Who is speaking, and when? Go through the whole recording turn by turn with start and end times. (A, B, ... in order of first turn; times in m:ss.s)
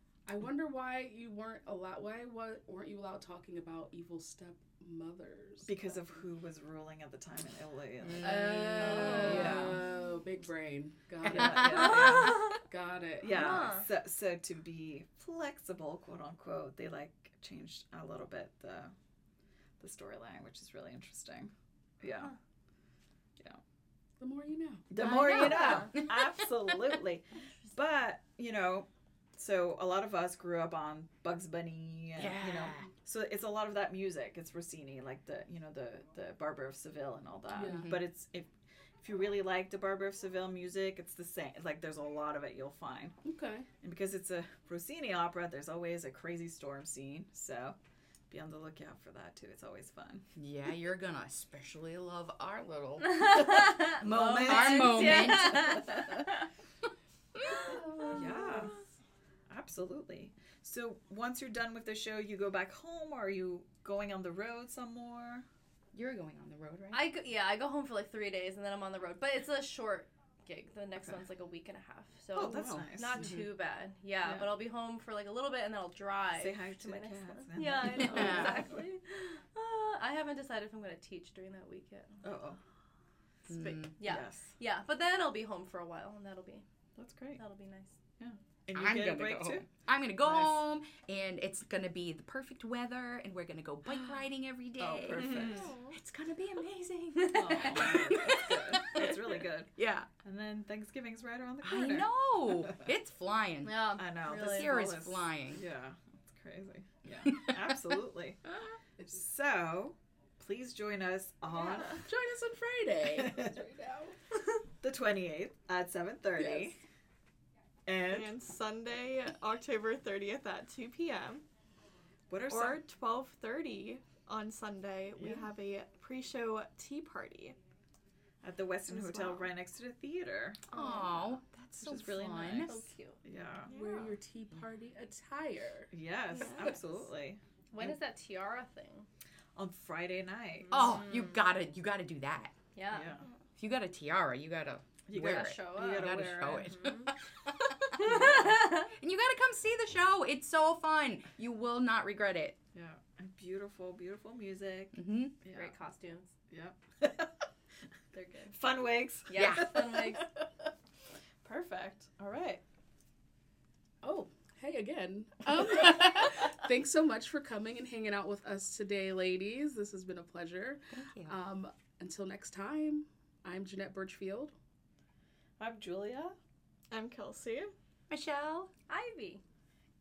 0:00.3-0:06.1 A
0:05.6-0:09.8 B
0:08.1-0:08.6 C
0:08.2-0:13.7 A
0:08.7-0:09.8 D
0:09.2-0:09.8 C
0:11.2-0:12.6 B
0:11.7-0:12.6 D
0:13.2-0:18.9 B
0:13.3-0:13.9 D
0:19.8-0:22.3 B
0:24.2-0:24.9 A
0:24.9-0:38.5 B
0:25.0-0:26.3 C
0:32.2-0:32.9 C
0:37.5-0:37.9 A
0:37.6-0:38.0 C
0:39.0-0:43.2 B
0:43.2-0:43.7 A
0:43.8-0:47.8 B
0:48.3-0:50.2 B
0:50.4-0:55.8 C
0:53.0-0:56.4 D
0:54.0-0:56.3 B
0:57.7-0:58.2 D
0:58.1-0:58.8 B
0:59.5-1:05.5 B
1:05.9-1:07.2 C
1:06.9-1:22.2 D
1:12.3-1:13.3 B
1:12.4-1:12.9 A
1:13.2-1:13.5 C
1:14.2-1:14.5 B
1:16.4-1:18.8 B
1:17.8-1:18.6 C
1:22.2-1:22.6 B
1:23.5-1:24.0 C
1:23.9-1:26.6 D
1:24.0-1:24.6 B
1:27.0-1:27.4 B
1:27.4-1:28.0 D
1:28.2-1:29.7 B
1:28.7-1:39.2 C
1:30.2-1:30.6 B
1:34.8-1:35.7 B
1:35.3-1:36.0 E
1:37.2-1:37.9 D
1:37.3-1:39.7 B
1:39.8-1:40.1 C
1:40.2-1:42.1 B
1:41.6-1:45.6 C
1:43.6-1:44.7 D
1:44.0-1:48.4 B
1:49.0-1:52.1 B
1:52.0-1:54.2 A
1:53.1-1:53.6 B
1:54.8-1:56.8 B
1:56.4-1:56.7 A
1:57.9-1:58.4 B
1:58.1-2:01.4 E
2:02.3-2:02.8 B
2:02.5-2:07.6 E
2:05.2-2:05.5 B
2:08.4-2:10.6 B
2:08.9-2:09.4 E
2:10.7-2:12.9 C
2:11.8-2:12.7 B
2:12.6-2:13.2 D
2:13.2-2:13.7 B
2:13.7-2:14.2 E
2:13.7-2:15.9 A
2:15.9-2:17.9 B
2:17.7-2:19.1 D
2:19.6-2:20.7 B
2:20.7-2:21.4 D
2:20.7-2:22.5 C
2:22.8-2:23.1 D
2:22.9-2:23.3 B
2:23.6-2:32.6 C
2:25.1-2:26.8 B
2:25.2-2:27.1 D
2:28.0-2:28.9 D
2:32.7-2:35.7 B
2:34.9-2:35.4 C
2:35.5-2:36.3 D
2:36.5-2:37.3 B
2:38.1-2:38.6 D
2:38.5-2:40.5 B
2:39.3-2:40.2 D
2:39.4-2:39.7 C
2:41.4-2:42.6 B
2:44.0-2:54.5 A
2:50.9-2:51.4 C
2:55.6-2:56.4 B
2:56.9-2:57.7 E
2:58.1-2:58.7 C
2:58.9-2:59.4 D